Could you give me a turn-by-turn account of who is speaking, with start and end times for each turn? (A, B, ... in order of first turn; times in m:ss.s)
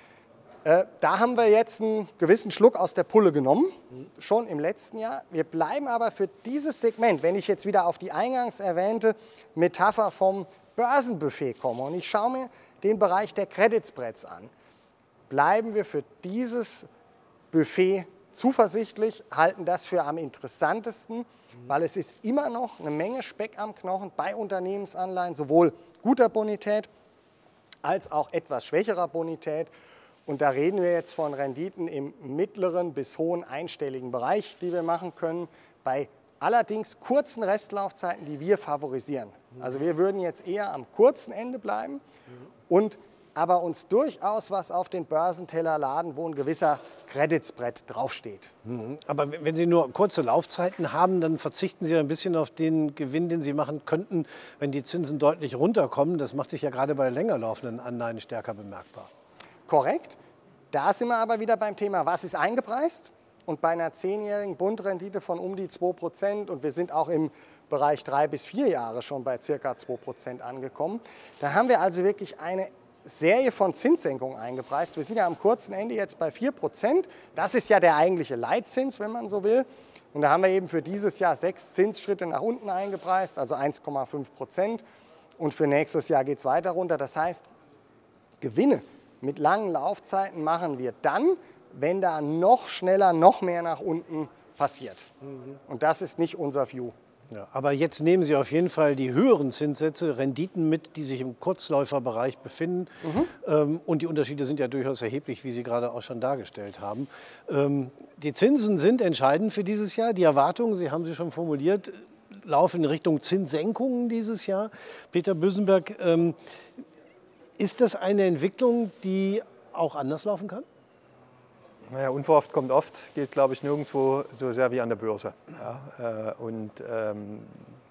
0:00.6-0:14.5 A
0:15.3-0:16.9 A
0:17.5-0:26.9 A
0:27.8-0:29.7 A
0:30.2-0:42.0 A
0:42.7-0:48.5 A
0:48.6-0:59.1 B
0:59.7-1:00.2 A
1:00.7-1:24.8 A
1:25.4-1:27.4 A
1:28.4-1:35.1 A
1:35.6-1:36.9 A
1:37.3-1:56.4 B
1:43.0-1:43.3 A
1:57.6-2:00.6 B
2:01.9-2:07.6 C